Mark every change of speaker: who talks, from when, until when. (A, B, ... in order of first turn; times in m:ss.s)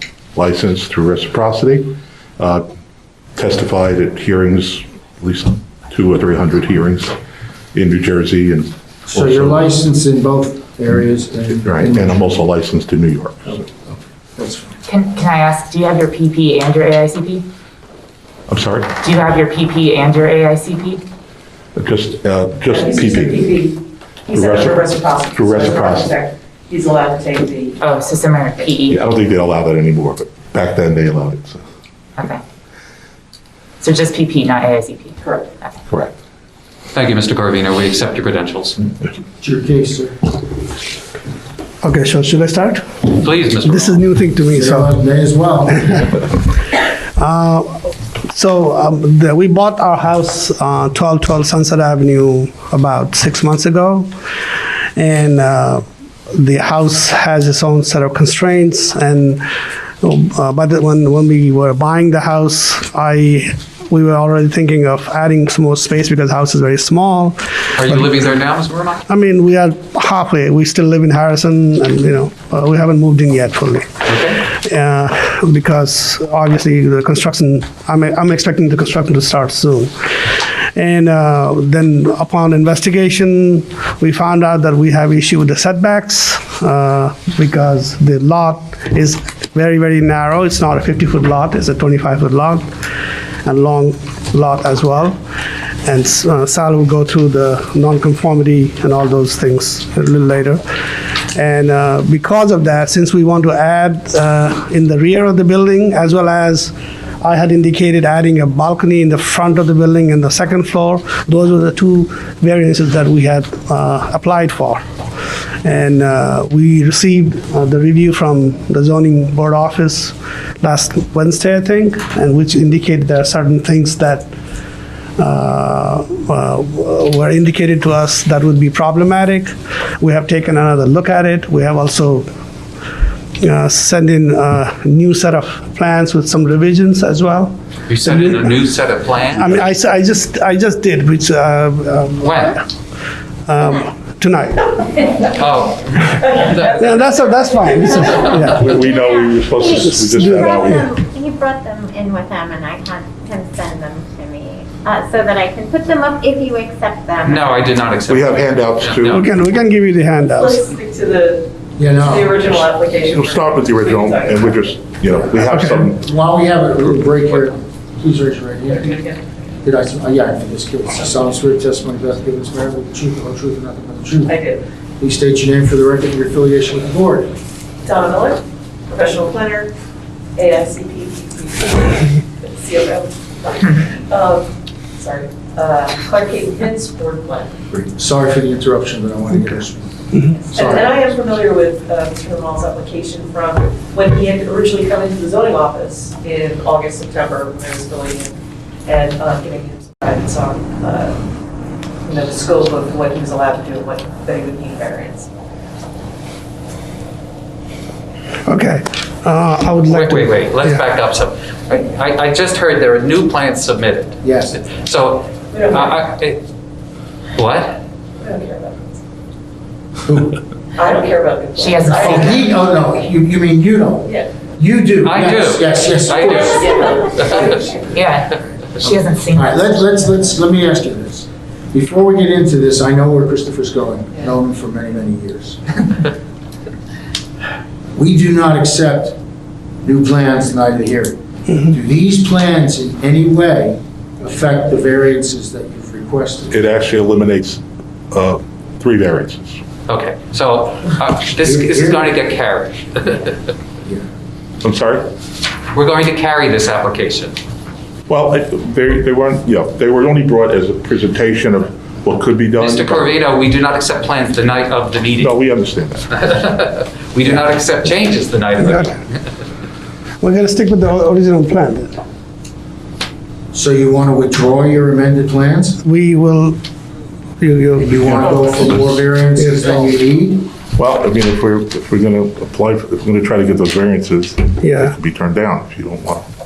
0:00.3-0:02.7 A
0:03.4-0:07.2 A
0:07.7-0:09.7 A
0:09.1-0:12.2 B
0:11.6-0:13.7 A
0:14.4-0:14.8 B
0:14.8-0:17.4 C
0:18.5-0:18.9 A
0:19.0-0:21.0 C
0:21.8-0:23.5 A
0:22.7-0:27.8 D
0:24.3-0:26.1 A
0:27.8-0:29.0 C
0:28.9-0:31.6 A
0:32.2-0:32.4 C
0:33.8-0:35.8 C
0:35.2-0:35.5 D
0:36.9-0:38.8 E
0:39.4-0:40.2 B
0:41.8-0:45.0 F
0:43.2-0:44.0 E
0:44.5-0:46.0 B
0:45.8-0:46.3 F
0:47.2-0:54.1 F
0:55.0-0:59.4 F
1:00.0-1:08.2 F
1:07.7-1:09.0 E
1:09.1-1:32.6 F
1:14.0-1:14.4 E
1:33.4-1:35.2 F
1:35.8-1:40.6 F
1:41.3-1:54.8 F
1:55.6-2:04.3 F
2:05.2-2:12.3 F
2:13.4-2:18.6 F
2:17.9-2:19.6 E
2:19.3-2:22.7 F
2:22.2-2:22.6 E
2:23.4-2:25.0 F
2:25.3-2:27.1 E
2:26.6-2:28.7 F
2:28.1-2:28.5 E
2:28.4-2:31.0 A
2:28.6-2:37.7 G
2:29.8-2:30.6 F
2:37.2-2:39.2 E
2:38.1-2:39.2 A
2:39.1-2:40.7 F
2:40.4-2:44.8 D
2:41.8-2:42.4 B
2:42.4-2:46.1 A
2:45.5-2:45.9 F
2:45.9-2:48.9 B
2:48.6-2:49.3 D
2:49.6-2:54.3 B
2:54.3-2:54.6 D
2:55.0-2:57.3 B
2:57.8-2:59.7 D
3:00.4-3:07.6 D
3:07.7-3:11.0 B
3:10.5-3:18.3 D
3:18.8-3:21.2 D
3:22.0-3:25.3 D
3:28.4-3:30.8 F
3:29.8-3:36.4 E
3:34.2-3:34.6 B
3:35.5-3:36.0 D
3:37.4-3:37.8 E
3:38.2-3:39.0 D
3:40.1-3:40.4 B
3:40.7-3:42.4 D
3:41.6-3:42.4 C
3:41.8-3:47.6 B
3:44.0-3:44.4 D
3:45.0-3:47.6 E
3:46.2-3:47.9 D
3:47.9-3:48.3 C
3:48.8-3:56.1 B
3:48.8-3:49.6 C
3:57.9-3:59.2 B
3:59.8-4:06.6 B
4:06.5-4:09.6 A
4:09.9-4:13.4 E
4:11.4-4:12.1 B
4:14.6-4:15.1 A
4:15.7-4:17.4 E
4:18.1-4:23.2 A
4:22.6-4:25.3 E
4:25.2-4:26.4 A
4:26.2-4:29.0 E
4:28.6-4:28.9 F
4:30.2-4:31.9 F
4:33.5-4:35.8 B
4:35.8-4:36.6 F
4:37.4-4:38.2 F
4:37.8-4:40.5 B
4:38.0-4:39.0 A
4:39.4-4:39.9 F
4:40.8-4:46.3 A
4:44.6-4:45.0 F